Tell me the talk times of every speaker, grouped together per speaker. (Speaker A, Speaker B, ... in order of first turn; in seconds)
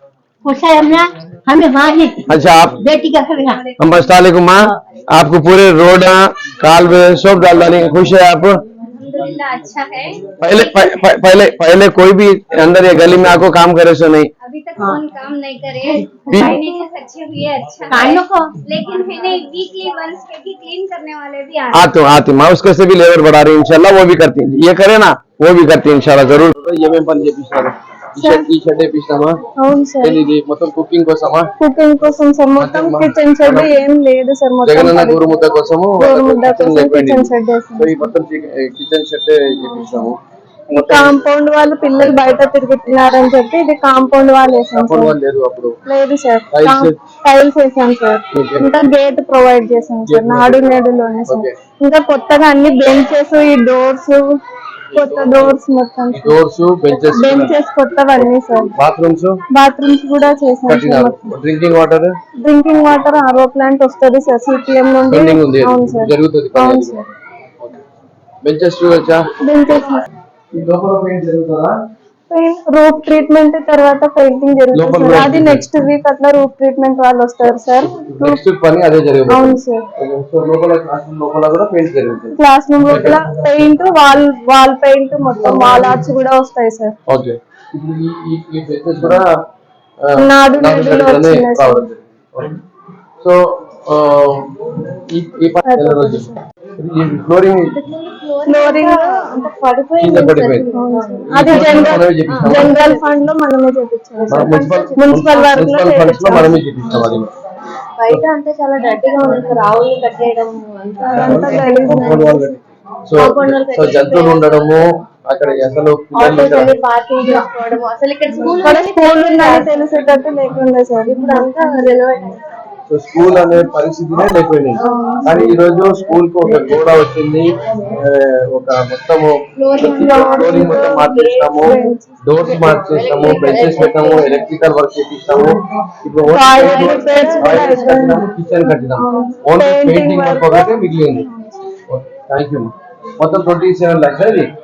Speaker A: 0.4-3.6, 15.9-16.8, 17.9-18.6
Speaker B: 2.3-2.8, 3.8-8.6, 10.4-14.3, 21.7-29.4, 30.0-31.5, 32.6-33.7, 34.6-40.2, 40.7-41.2, 44.7-45.8, 46.5-46.9, 48.3-48.7, 50.1-51.5, 54.9-55.6, 56.1-57.5, 58.2-59.4, 60.7-62.2, 65.1-67.1, 68.4-69.3, 70.5-71.8, 74.7-75.7, 77.5-83.9, 85.4-86.0, 87.1-89.3, 90.0-92.6, 93.2-97.8, 100.0-100.7, 101.3-102.8, 104.3-107.3, 111.1-116.8, 122.9-141.2, 141.9-144.5
Speaker C: 3.1-4.0, 8.8-11.1, 14.4-21.9
Speaker D: 28.2-28.5, 29.6-30.2, 31.6-35.2, 36.0-38.1, 40.7-45.1, 45.9-54.2, 54.9-56.4, 56.9-58.7, 59.5-61.3, 62.4-67.0, 69.4-70.1, 72.3-78.4, 79.3-79.8, 82.3-86.9, 90.2-91.9, 95.6-96.3, 98.5-99.5, 100.3-106.8, 111.0-112.6, 118.5-122.0, 124.8-125.4, 129.9-132.1, 136.3-138.3, 138.8-141.6
Speaker E: 97.7-101.6, 102.2-103.0, 104.3-105.5, 108.0-112.1, 113.2-114.8, 116.1-119.9, 121.1-122.4, 129.6-131.8, 132.4-134.5, 136.7-137.9